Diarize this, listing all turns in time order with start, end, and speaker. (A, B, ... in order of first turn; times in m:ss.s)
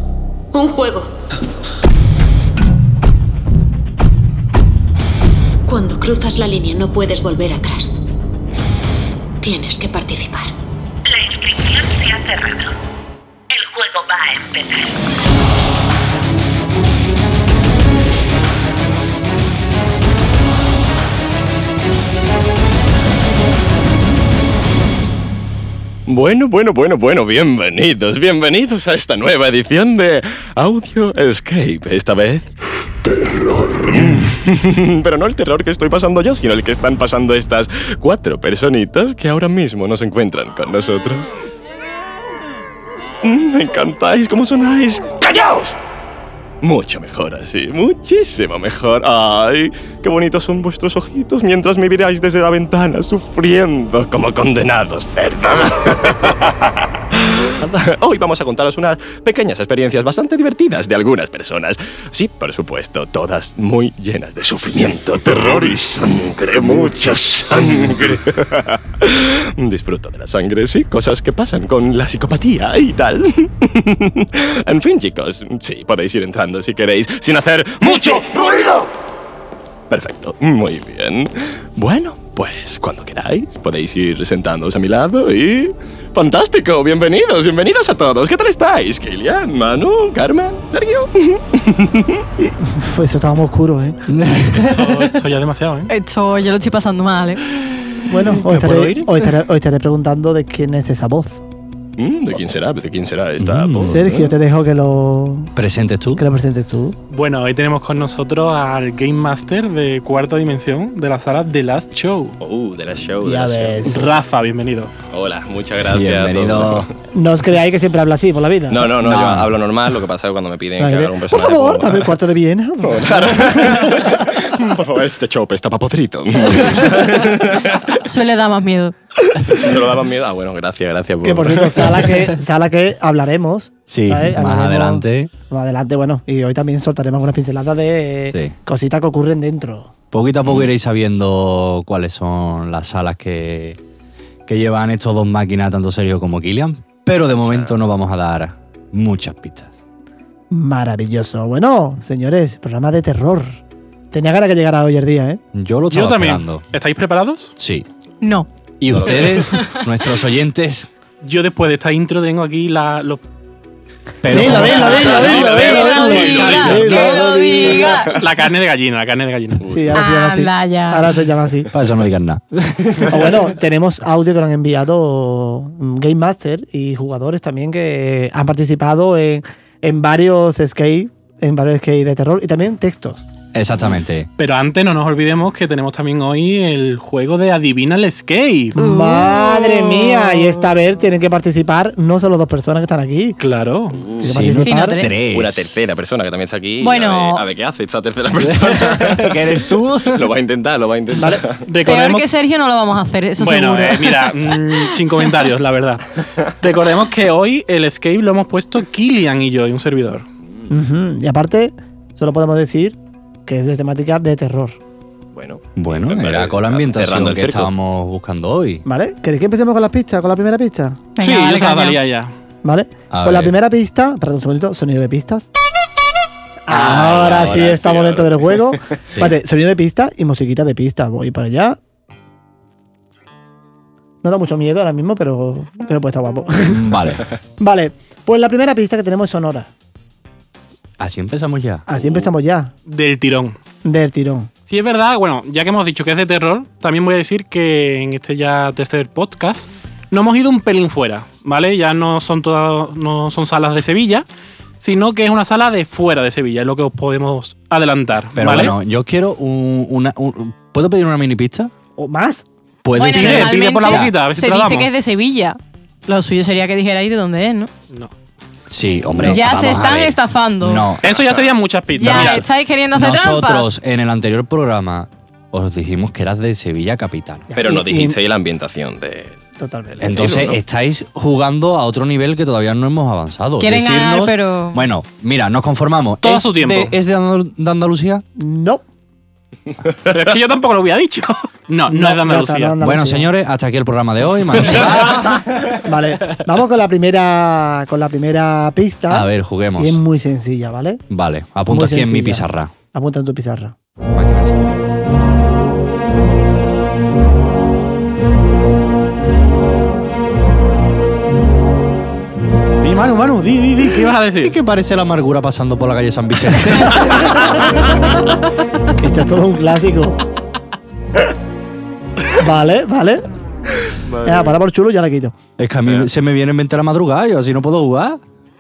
0:00.5-0:01.1 A
0:05.7-0:08.0 A
0:09.4-0:10.5 A
0:11.1-0:12.7 B
0:13.5-0:15.0 B
0:26.1-0:32.5 C
0:33.5-0:41.3 C
0:43.2-0:45.7 C
0:46.6-1:18.9 C
1:07.7-1:08.0 D
1:19.9-1:32.2 C
1:32.4-1:34.0 E
1:34.1-1:35.0 D
1:34.7-1:35.9 F
1:35.9-1:37.4 G
1:38.1-1:41.4 E
1:38.2-1:39.1 D
1:42.0-1:44.2 C
1:43.4-1:44.2 D
1:43.8-1:45.5 E
1:45.6-1:46.2 D
1:46.2-1:47.0 E
1:47.1-1:52.4 F
1:52.4-1:53.9 C
1:53.2-1:54.1 E
1:53.8-1:54.9 F
1:55.1-1:56.9 C
1:55.9-1:56.9 D
1:57.1-1:58.8 E
1:58.7-2:02.2 C
1:59.0-1:59.6 D
2:00.8-2:04.2 E
2:02.8-2:07.8 C
2:07.9-2:09.0 G
2:09.5-2:12.1 C
2:11.2-2:19.9 E
2:13.9-2:15.3 D
2:18.3-2:18.6 D
2:20.1-2:23.8 D
2:20.4-2:20.7 C
2:24.5-2:29.8 D
2:27.4-2:27.8 C
2:30.5-2:33.6 E
2:34.1-2:35.4 E
2:35.5-2:36.6 D
2:35.9-2:37.5 F
2:37.6-2:37.9 D
2:38.2-2:38.5 G
2:38.8-2:40.9 D
2:38.9-2:39.5 C
2:39.4-2:39.8 G
2:41.2-2:43.2 F
2:44.2-2:45.2 D
2:44.3-2:48.0 E
2:44.3-2:47.3 F
2:44.8-2:48.2 G
2:45.6-2:45.9 C
2:48.1-2:49.6 F
2:49.6-2:50.0 C
2:49.7-2:51.7 E
2:49.9-2:51.1 G
2:51.7-2:53.1 D
2:53.0-3:03.2 E
3:03.5-3:04.3 D
3:04.4-3:08.7 F
3:08.8-3:13.4 E
3:08.8-3:10.7 G
3:13.4-3:14.1 F
3:14.2-3:15.0 E
3:14.2-3:15.8 D
3:14.6-3:15.3 G
3:15.3-3:19.4 C
3:16.8-3:17.4 G
3:18.4-3:20.3 D
3:20.0-3:21.7 C
3:21.2-3:21.4 E
3:21.6-3:22.3 F
3:21.8-3:25.4 G
3:23.4-3:26.1 F
3:26.6-3:30.3 F
3:30.7-3:34.8 E
3:35.3-3:37.7 C
3:35.8-3:38.8 D
3:38.8-3:41.0 E
3:41.2-3:42.0 G
3:41.2-3:42.3 F
3:42.6-3:45.5 E
3:43.1-3:43.5 D
3:46.7-3:51.8 E
3:46.7-3:48.8 C
3:49.1-3:49.4 D
3:54.2-3:56.8 E
3:56.6-3:57.3 D
3:57.6-3:59.7 E
4:01.0-4:01.8 D
4:01.9-4:02.7 E
4:02.9-4:03.6 F
4:03.8-4:04.5 E
4:04.7-4:14.3 F
4:14.8-4:18.8 F
4:18.4-4:21.7 D
4:22.0-4:22.5 E
4:22.8-4:24.2 D
4:22.9-4:27.7 G
4:23.1-4:24.9 F
4:28.7-4:31.1 D
4:29.3-4:30.9 G
4:31.0-4:32.4 F
4:32.0-4:33.7 G
4:32.0-4:37.5 D
4:37.5-4:38.2 E
4:37.6-4:39.4 C
4:39.6-4:40.1 E
4:40.0-4:40.6 C
4:40.0-4:48.2 D
4:43.6-4:44.9 G
4:46.2-4:46.9 F
4:48.4-4:48.8 E
4:50.1-4:52.7 F
4:51.9-4:53.3 E
4:52.8-4:55.4 D
4:55.7-5:01.0 E
4:59.1-5:00.0 D
5:01.1-5:02.7 D
5:01.7-5:03.8 E
5:04.0-5:04.8 D
5:12.8-5:14.5 F
5:14.4-5:17.6 D
5:19.0-5:20.2 E
5:22.4-5:23.2 E
5:24.1-5:24.6 C
5:24.2-5:25.4 E
5:25.6-5:28.2 D